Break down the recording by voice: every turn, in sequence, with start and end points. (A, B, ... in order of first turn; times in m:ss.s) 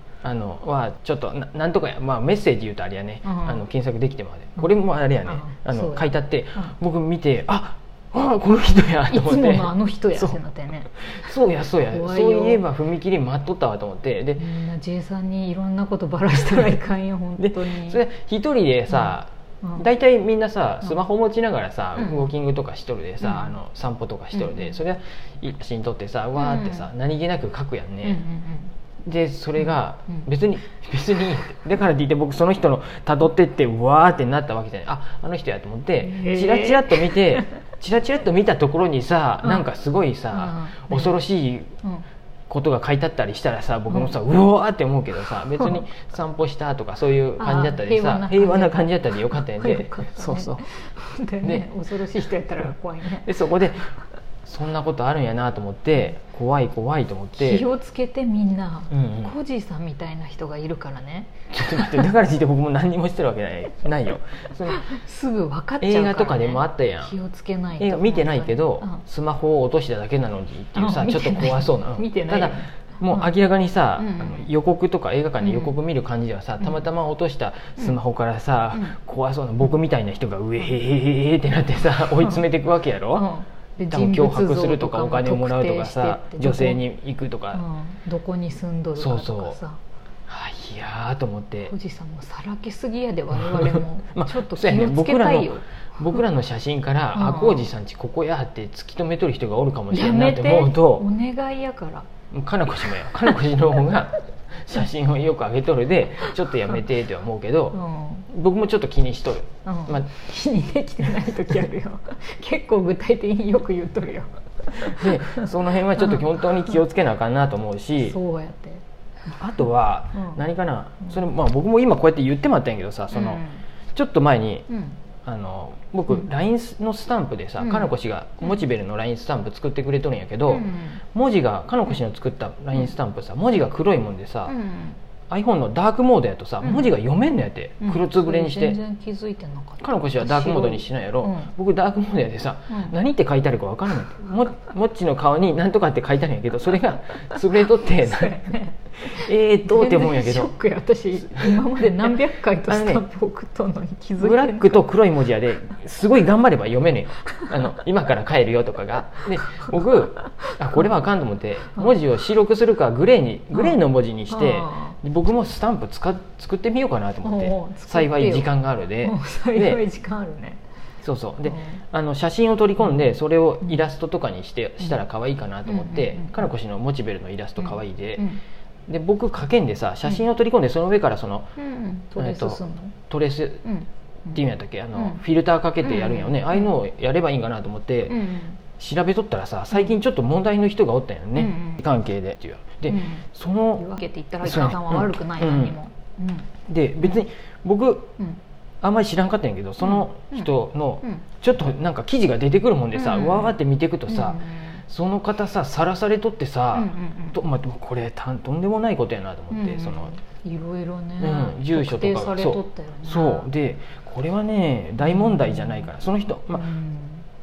0:00.2-0:10.4 A
0:03.2-0:03.6 B
0:05.2-0:06.7 B
0:09.1-0:11.3 B
0:11.0-0:14.5 A
0:11.9-0:12.6 B
0:14.4-0:18.0 B
0:17.4-0:28.2 A
0:18.9-0:19.8 B
0:22.0-0:22.3 B
0:23.2-0:23.6 B
0:24.3-0:24.8 B
0:26.4-0:26.9 B
0:28.0-0:28.7 B
0:29.1-0:41.7 A
0:29.6-0:30.3 B
0:36.0-0:37.5 B
0:40.3-0:41.2 B
0:42.5-0:50.6 A
0:43.9-0:44.2 B
0:47.4-0:53.3 B
0:51.4-0:51.7 A
0:52.6-0:53.9 A
0:54.4-0:57.6 A
0:57.4-1:02.1 B
0:58.9-0:59.3 A
1:01.5-1:04.9 A
1:04.7-1:09.0 B
1:05.8-1:07.2 A
1:07.8-1:23.3 A
1:10.8-1:13.3 B
1:14.0-1:14.5 B
1:15.4-1:15.8 B
1:23.1-1:26.8 B
1:23.9-1:27.6 A
1:27.5-1:29.8 B
1:29.0-1:29.6 A
1:30.3-1:31.7 A
1:31.6-1:35.6 B
1:33.5-1:41.1 A
1:37.1-1:37.7 B
1:39.9-1:42.1 B
1:42.3-1:50.2 A
1:47.7-1:48.3 B
1:49.6-1:56.2 B
1:54.8-1:58.2 A
1:58.0-1:58.8 B
1:59.3-2:03.4 A
2:00.2-2:00.4 B
2:03.1-2:03.6 B
2:04.0-2:04.7 A
2:04.7-2:05.0 B
2:05.2-2:14.6 A
2:07.6-2:07.9 B
2:10.5-2:11.0 B
2:14.5-2:15.0 B
2:15.3-2:18.8 A
2:16.6-2:17.0 B
2:17.8-2:21.5 B
2:19.8-2:30.5 A
2:22.7-2:23.0 B
2:27.8-2:34.9 B
2:31.3-2:31.6 A
2:32.7-2:33.1 A
2:34.2-2:49.8 A
2:44.3-2:45.0 B
2:47.2-2:50.6 B
2:51.0-2:58.3 A
2:51.4-2:51.8 B
2:55.7-2:56.5 B
2:57.6-2:58.4 B
2:58.9-3:01.5 A
3:01.6-3:03.0 B
3:02.2-3:03.6 A
3:03.6-3:04.4 B
3:04.3-3:08.2 A
3:04.9-3:05.2 B
3:05.8-3:06.7 B
3:08.1-3:08.6 B
3:08.8-3:13.9 A
3:11.4-3:11.9 B
3:12.9-3:13.2 B
3:13.8-3:17.2 B
3:14.4-3:15.8 A
3:16.7-3:18.1 A
3:18.8-3:30.2 A
3:19.8-3:21.2 B
3:22.9-3:24.8 B
3:26.7-3:27.4 B
3:29.5-3:33.5 B
3:31.2-3:36.7 A
3:35.0-3:35.9 B
3:36.5-3:37.2 B